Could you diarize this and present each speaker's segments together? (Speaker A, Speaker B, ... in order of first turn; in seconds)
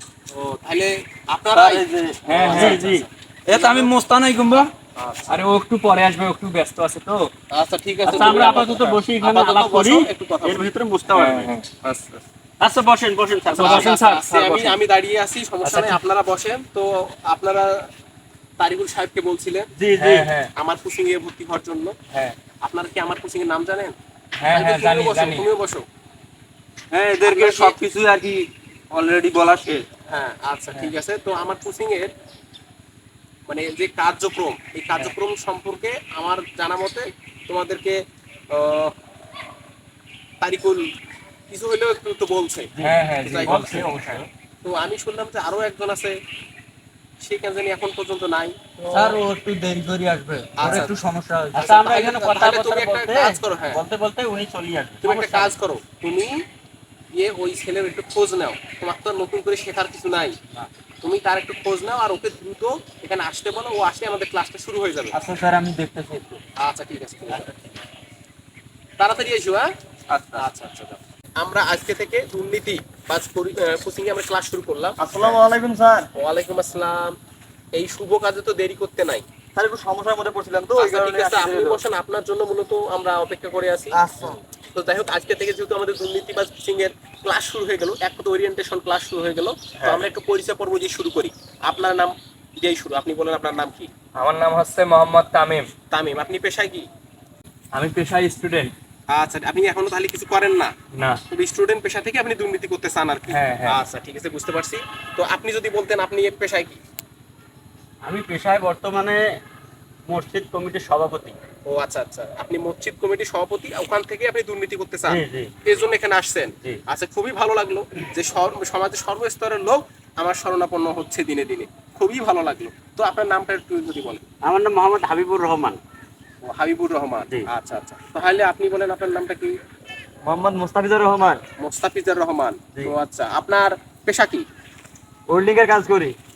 Speaker A: 0.3-2.9, 3.5-3.9, 5.0-5.3, 7.5-10.7, 13.5-17.9, 18.6-19.7, 20.6-21.9, 22.6-23.9, 24.5-25.8, 27.2-27.8, 30.1-32.1, 33.5-38.0, 38.5-38.9, 40.4-40.8, 41.5-43.8, 44.6-46.1, 47.2-49.2, 50.6-50.9, 51.5-53.8, 55.0-56.4, 57.1-60.4, 61.0-65.2, 66.6-67.5, 69.0-69.7, 70.3-75.0, 76.2-77.2, 77.7-79.2, 80.8-83.9, 84.7-93.9, 95.9-96.8, 99.1-100.7, 101.3-106.8, 111.7-124.2, 126.4-129.5, 131.6-134.4
Speaker B: 1.5-2.8, 3.5-4.7, 26.9-29.8, 42.8-44.2, 48.9-51.7, 65.1-66.4, 70.1-70.4
Speaker C: 2.3-3.0, 5.3-7.3, 8.1-8.9, 11.1-12.2, 13.6-14.8, 15.6-16.0, 20.0-20.5, 24.4-25.4, 94.2-95.7, 97.7-98.7, 100.9-101.2, 103.3-103.8
Speaker D: 2.5-3.1, 8.1-11.5, 12.6-13.9, 19.7-20.3, 42.8-44.2, 51.5-55.5, 108.0-109.2, 110.1-111.4, 115.1-115.5, 124.4-125.8
Speaker E: 75.0-76.1, 79.5-81.8, 83.9-84.4, 130.2-131.4, 135.3-136.2